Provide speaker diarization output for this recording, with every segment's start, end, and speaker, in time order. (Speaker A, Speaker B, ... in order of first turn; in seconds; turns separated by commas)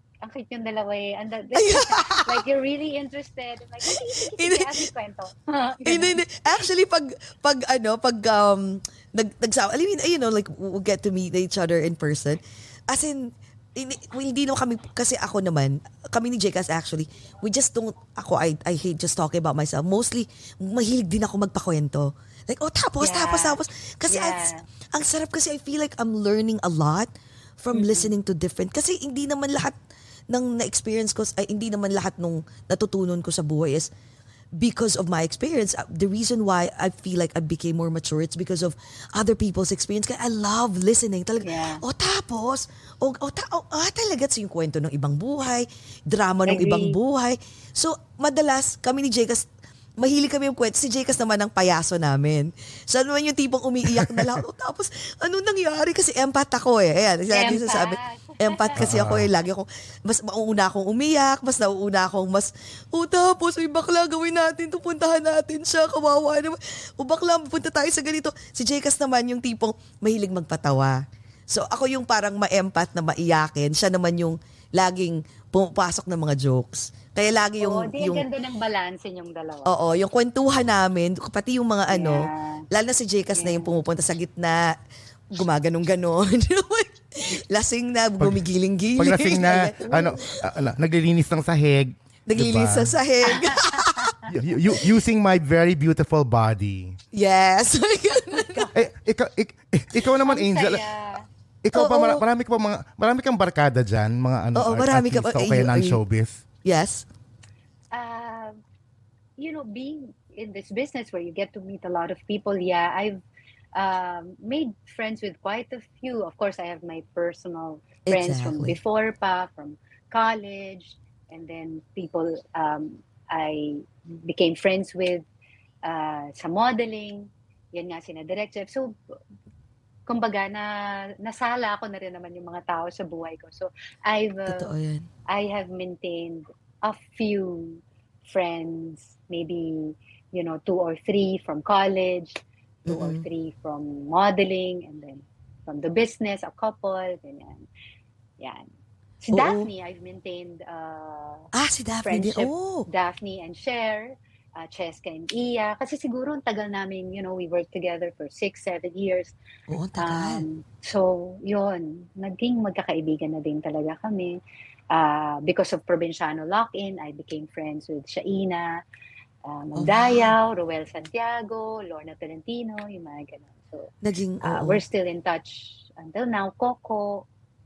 Speaker A: 0.2-6.2, Speaker B: 1.5-2.4, Speaker B: 3.9-4.9, Speaker B: 5.8-29.8, Speaker A: 23.0-24.6, Speaker A: 27.7-28.1, Speaker B: 30.3-33.9, Speaker B: 34.6-78.2, Speaker A: 41.4-41.8, Speaker A: 46.5-47.0, Speaker C: 54.0-54.2, Speaker A: 57.3-58.8, Speaker C: 58.8-59.3, Speaker A: 77.6-79.8, Speaker B: 79.7-84.8, Speaker A: 81.9-82.7, Speaker A: 83.3-83.7, Speaker B: 85.3-90.4, Speaker C: 89.0-93.0, Speaker A: 89.8-90.1, Speaker B: 92.3-94.1, Speaker A: 93.3-94.2, Speaker C: 94.3-97.0, Speaker B: 97.1-98.7, Speaker A: 98.3-98.8, Speaker C: 98.7-100.8, Speaker A: 100.2-101.2, Speaker C: 101.6-106.4, Speaker B: 101.7-102.2, Speaker B: 104.5-106.0, Speaker B: 106.6-107.0, Speaker A: 107.9-108.6, Speaker A: 109.4-113.2, Speaker A: 113.8-125.2, Speaker B: 118.0-118.8, Speaker A: 125.8-128.9, Speaker A: 130.1-134.7, Speaker B: 134.5-135.1, Speaker A: 135.3-147.7, Speaker B: 142.8-143.2, Speaker A: 148.4-148.6, Speaker A: 149.2-151.5, Speaker B: 149.3-149.7, Speaker B: 151.5-152.9, Speaker A: 152.0-159.3, Speaker B: 159.7-160.4, Speaker A: 159.9-164.4, Speaker A: 164.9-168.8, Speaker A: 169.4-173.9, Speaker B: 169.8-170.3, Speaker B: 174.0-174.8, Speaker A: 174.4-177.2